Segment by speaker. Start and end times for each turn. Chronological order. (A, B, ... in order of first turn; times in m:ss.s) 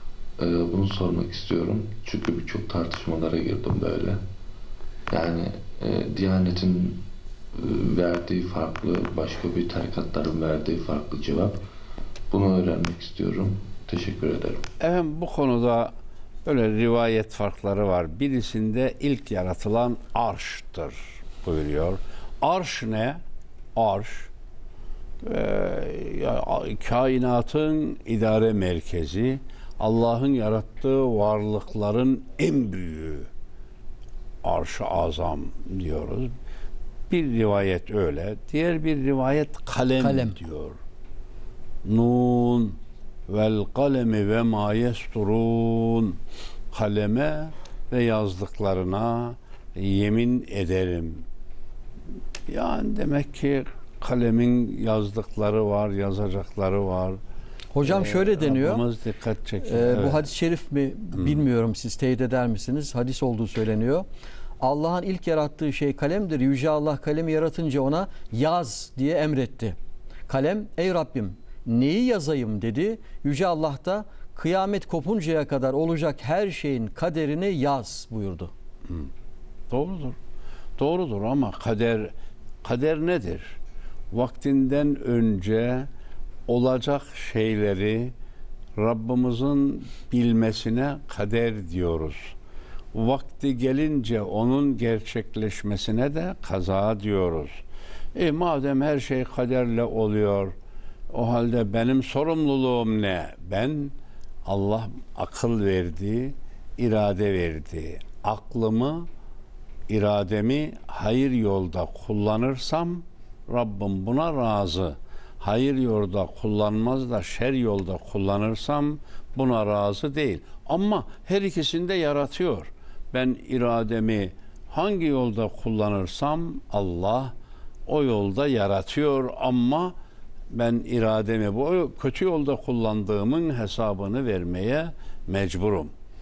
0:00.4-0:04.2 A
0:05.1-0:07.0 A
0:07.6-0:11.6 A
0:12.3-0:14.6 A
0:14.8-0:15.9 B
0:16.4-0:23.2 B
0:23.7-0:24.3 B
0:25.2-0:33.3 B
0:34.4-0:36.3 B
0:37.1-0:40.8 B
0:40.0-0:40.4 C
0:41.8-0:46.2 B
0:46.7-0:51.2 B
0:52.5-0:57.2 B
0:57.7-0:58.8 C
0:57.8-1:00.3 B
0:59.6-1:04.1 C
1:01.1-1:01.4 B
1:04.6-1:09.8 C
1:10.3-1:18.5 C
1:18.8-1:19.1 B
1:19.7-1:20.2 B
1:20.8-1:23.6 B
1:24.1-1:25.9 B
1:26.5-1:28.1 B
1:28.8-1:32.4 B
1:32.9-1:37.6 B
1:38.1-1:40.5 B
1:41.1-1:49.1 B
1:49.9-2:07.3 B
2:07.8-2:09.9 B
2:10.5-2:15.9 B